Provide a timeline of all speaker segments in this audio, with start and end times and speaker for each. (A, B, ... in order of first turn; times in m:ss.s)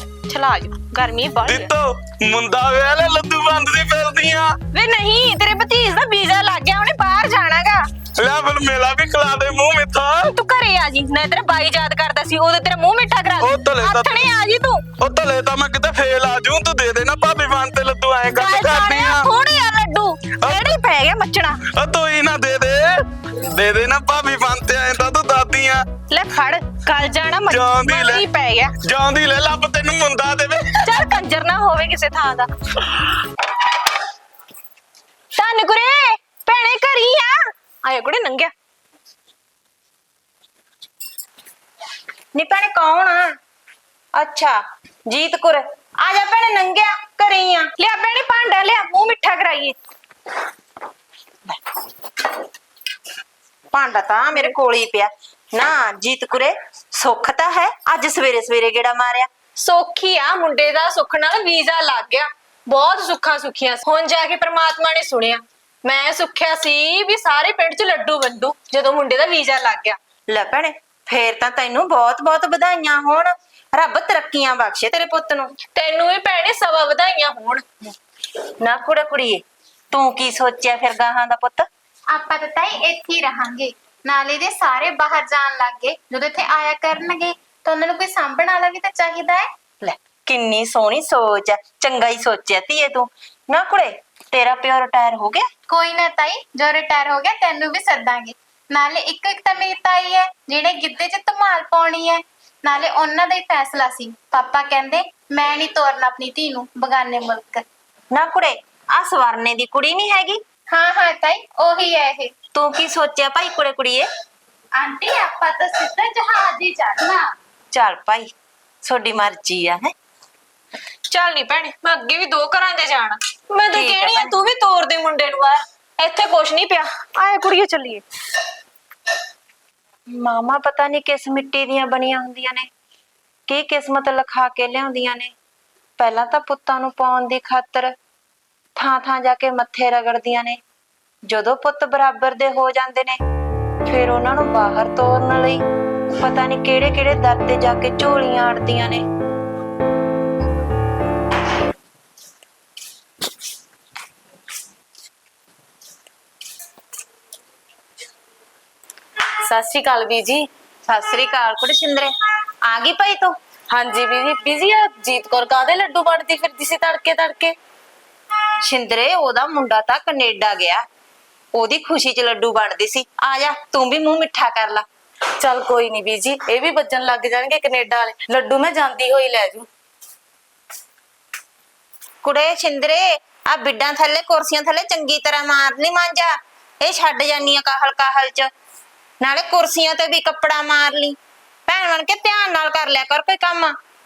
0:00.3-0:01.6 A
0:01.4-0:04.6 B
0:04.7-0:07.8 A
0:08.2-0:10.4 B
0:10.3-0:14.8 A
0:13.4-0:14.4 B
0:15.0-0:19.4 B
0:18.4-0:21.6 A
0:20.4-0:20.8 B
0:21.6-0:25.8 B
0:26.1-0:28.7 A
0:27.4-0:28.3 B
0:28.8-0:31.2 B
0:30.8-0:32.5 A
0:35.3-0:38.5 A
0:42.3-0:43.3 C
0:44.2-0:47.7 C
0:47.8-0:49.8 A
0:53.7-0:59.3 C
0:59.6-1:10.0 A
1:10.3-1:15.5 C
1:15.7-1:17.6 A
1:18.6-1:21.6 C
1:22.1-1:29.4 D
1:29.8-1:35.4 C
1:35.7-1:47.5 D
1:48.1-1:50.4 C
1:50.7-1:52.3 D
1:52.5-1:54.0 C
1:54.8-1:56.3 D
1:54.8-1:57.2 A
1:57.7-1:58.3 C
1:58.8-1:59.9 C
2:01.1-2:08.0 A
2:03.7-2:04.3 C
2:10.2-2:12.7 C
2:13.5-2:15.3 C
2:16.0-2:17.9 C
2:18.8-2:20.6 C
2:21.3-2:23.2 C
2:23.8-2:25.6 C
2:26.2-2:29.0 C
2:39.4-2:40.4 E
2:40.9-2:42.1 C
2:42.7-2:43.3 C
2:43.7-2:47.5 E
2:48.6-2:50.8 C
2:51.5-2:54.8 C
2:55.4-2:59.7 E
3:02.2-3:08.5 C
3:09.2-3:13.7 C